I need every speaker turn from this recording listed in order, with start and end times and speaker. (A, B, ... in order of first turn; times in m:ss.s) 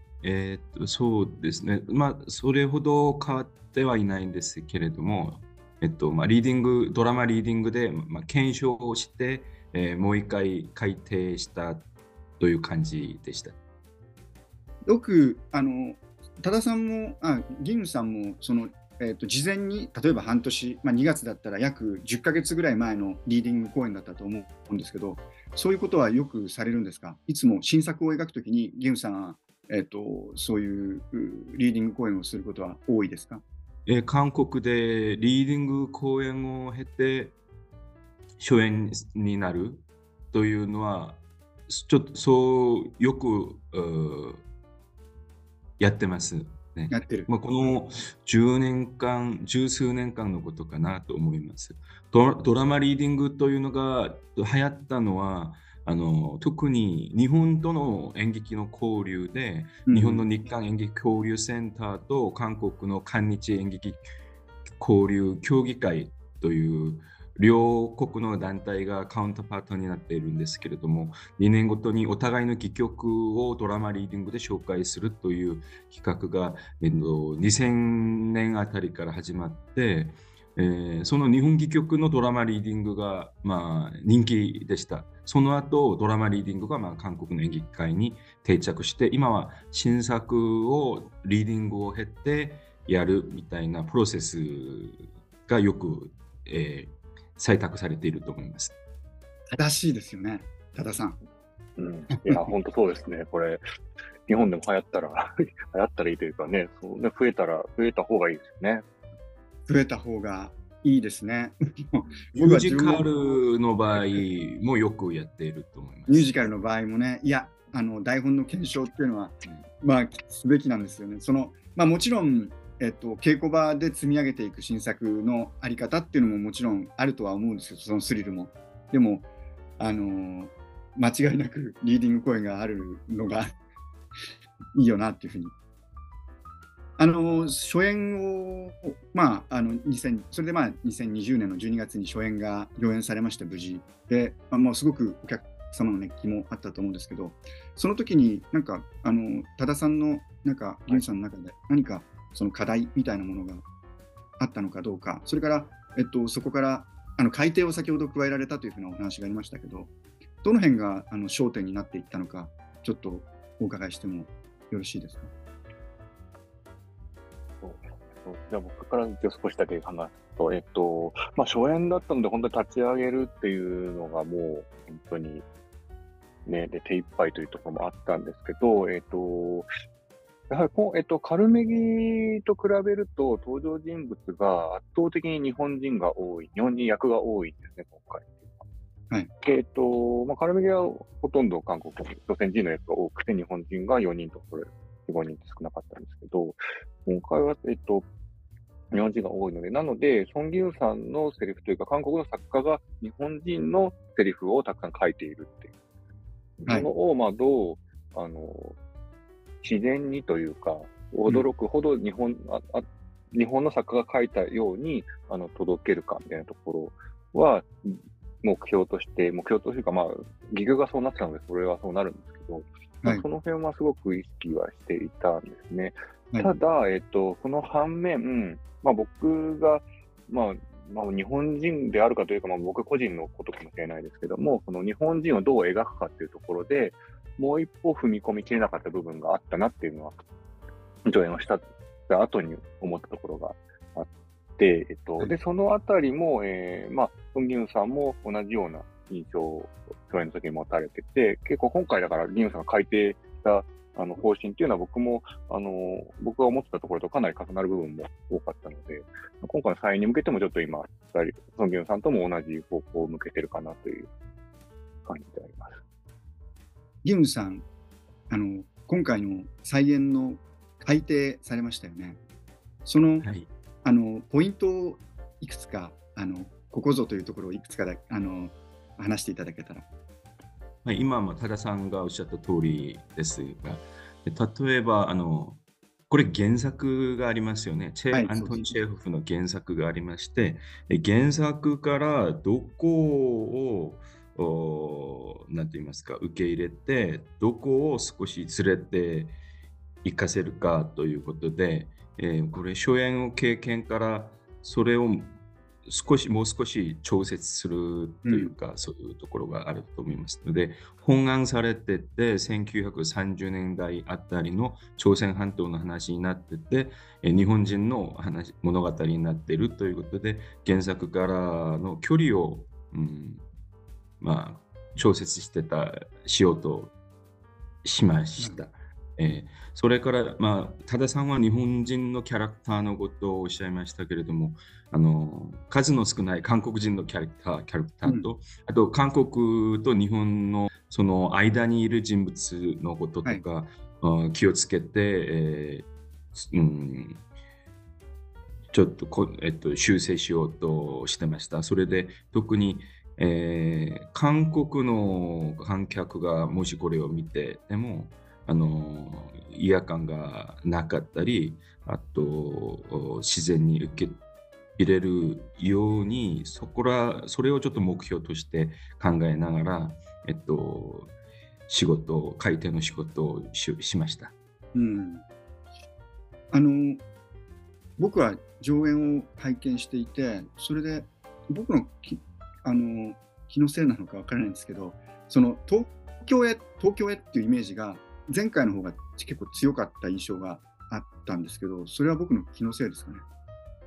0:00.2-0:11.9 A
0:12.4-0:13.6 A
0:14.8-0:33.4 B
0:33.9-0:37.4 A
0:38.4-0:44.4 A
0:45.8-1:04.0 A
0:46.9-0:47.3 B
0:59.9-1:00.2 B
1:04.8-1:38.8 A
1:39.5-1:41.2 B
1:41.8-1:43.6 C
1:42.2-1:42.4 B
1:44.3-1:48.8 C
1:49.7-1:53.1 B
1:52.3-1:56.3 A
1:56.1-2:09.2 B
2:09.8-2:13.5 B
2:14.7-2:15.5 B
2:17.0-2:33.6 B
2:34.4-2:39.9 B
2:40.4-2:45.3 B
2:47.6-2:55.4 C
2:56.4-2:59.7 C
3:00.5-3:08.6 C
3:09.4-3:18.0 C
3:18.9-3:25.7 C
3:26.6-3:28.8 C
3:29.6-4:00.2 C
4:01.0-4:24.1 C
4:25.0-4:25.8 C
4:27.0-4:27.6 B
4:28.3-4:32.2 B
4:32.8-4:33.3 B
4:33.2-4:33.5 A
4:33.8-4:39.9 B
4:40.8-4:59.3 A
4:48.1-4:48.8 B
5:00.0-5:23.4 A
5:08.2-5:08.5 B
5:24.2-5:26.9 A
5:27.8-5:47.2 A
5:48.7-6:04.2 A
6:04.8-6:11.1 A
6:11.7-6:14.3 A
6:14.7-6:15.2 B
6:16.5-6:17.0 B
6:18.0-6:33.2 B